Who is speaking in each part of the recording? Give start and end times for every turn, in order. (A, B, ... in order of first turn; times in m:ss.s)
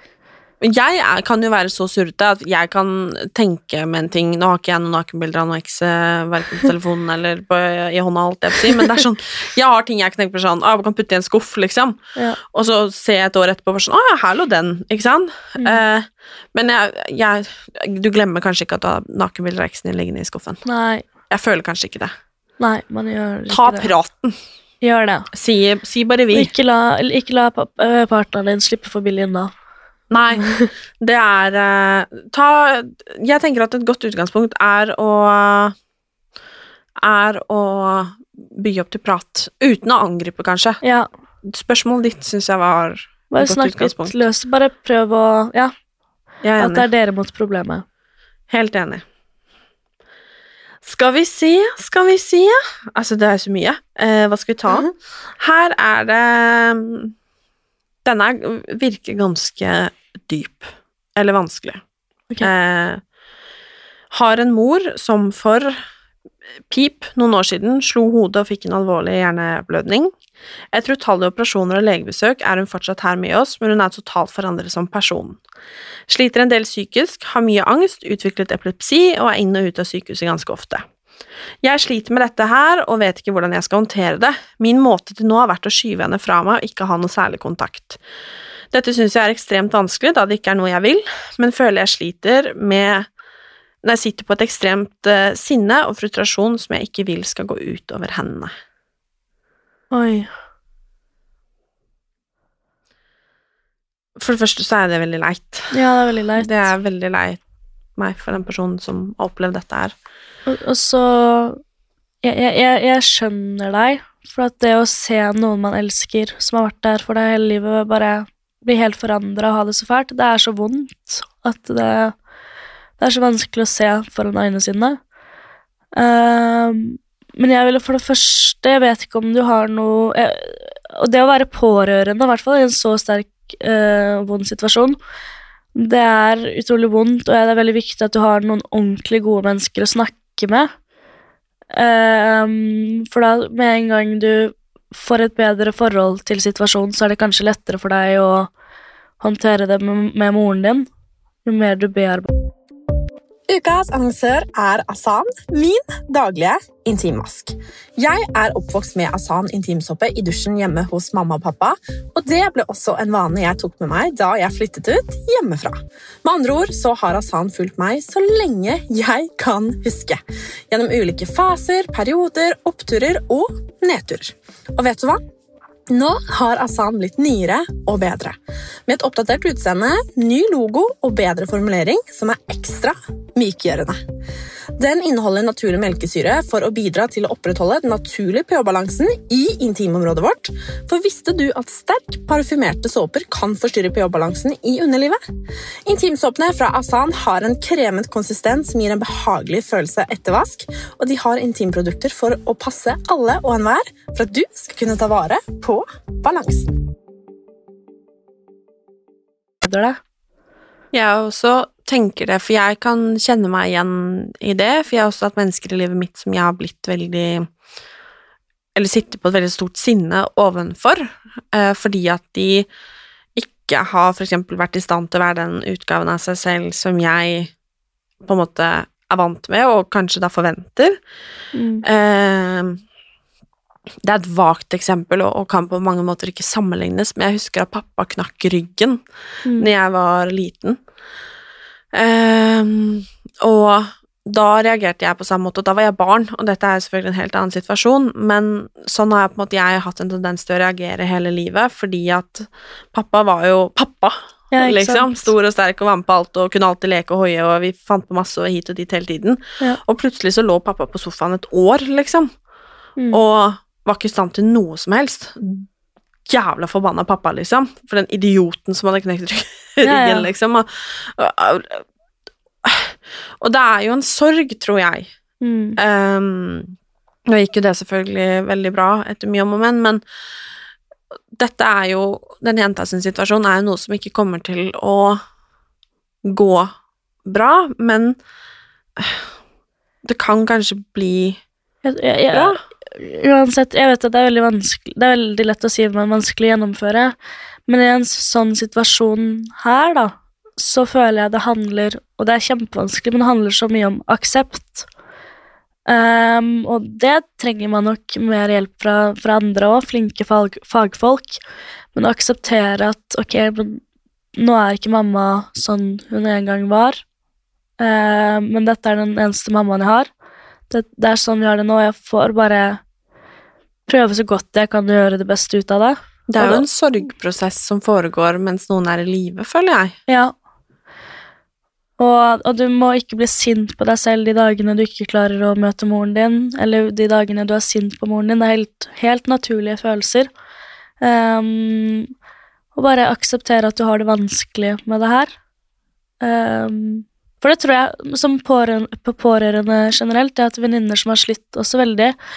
0:00.6-0:20.6 A
0:20.7-0:21.1 B
0:21.3-0:22.1 A
0:22.6-0:23.9 B
0:23.5-0:24.4 A
0:24.8-0:25.3 B
0:25.3-0:26.5 A
0:26.3-0:29.5 B
0:30.1-0:30.5 A
0:30.4-0:30.7 B
0:31.0-0:35.8 A
0:37.0-0:40.8 A
0:40.8-0:41.1 B
0:41.4-0:44.2 A
0:43.3-0:45.7 B
0:46.4-0:46.9 A
0:46.6-0:47.8 B
0:48.5-0:49.0 A
0:50.8-0:57.1 A
0:58.0-1:01.8 A
1:02.4-1:03.0 A
1:04.1-1:05.8 A
1:06.7-1:10.1 A
1:10.7-1:15.4 A
1:16.1-1:20.8 A
1:21.6-1:28.0 A
1:28.7-1:33.1 A
1:33.8-1:38.5 A
1:39.9-1:40.3 B
1:44.2-1:47.4 A
1:45.7-1:46.7 B
1:48.0-1:50.0 A
1:50.5-1:51.6 B
1:52.2-2:02.2 B
2:03.0-2:05.0 B
2:06.0-2:15.0 B
2:15.8-2:20.7 B
2:21.7-2:28.5 B
2:29.2-2:30.9 B
2:31.4-2:32.3 B
2:33.5-2:55.2 C
2:55.9-3:04.0 C
3:04.8-3:15.2 C
3:15.9-3:26.7 C
3:29.6-3:30.0 B
3:30.9-3:37.5 A
3:38.8-3:42.7 A
3:43.4-3:47.5 A
3:48.2-3:51.0 A
3:51.5-3:51.8 B
3:51.8-3:52.8 A
3:54.0-3:59.0 A
3:59.5-4:00.8 A
4:01.9-4:22.3 A
4:14.5-4:15.3 B
4:23.1-4:25.7 A
4:26.3-4:31.8 A
4:29.8-4:30.3 B
4:32.6-4:35.1 A
4:35.4-4:35.8 B
4:35.8-4:36.8 A
4:37.3-4:40.0 A
4:41.4-4:45.2 A
4:46.2-4:46.7 A
4:47.2-4:48.2 A
4:49.0-4:49.3 A
4:50.0-4:51.4 A
4:51.8-4:57.2 B
4:52.3-4:52.6 A
4:57.7-5:04.9 B
5:05.9-5:11.4 B
5:11.9-5:13.8 B
5:14.4-5:17.0 B
5:17.8-5:20.1 B
5:20.7-5:22.8 B
5:23.9-5:26.6 B
5:26.3-5:30.0 A
5:30.1-5:30.3 B
5:32.0-5:40.3 B
5:41.0-5:42.1 B
5:42.8-5:45.3 B
5:46.2-5:52.2 B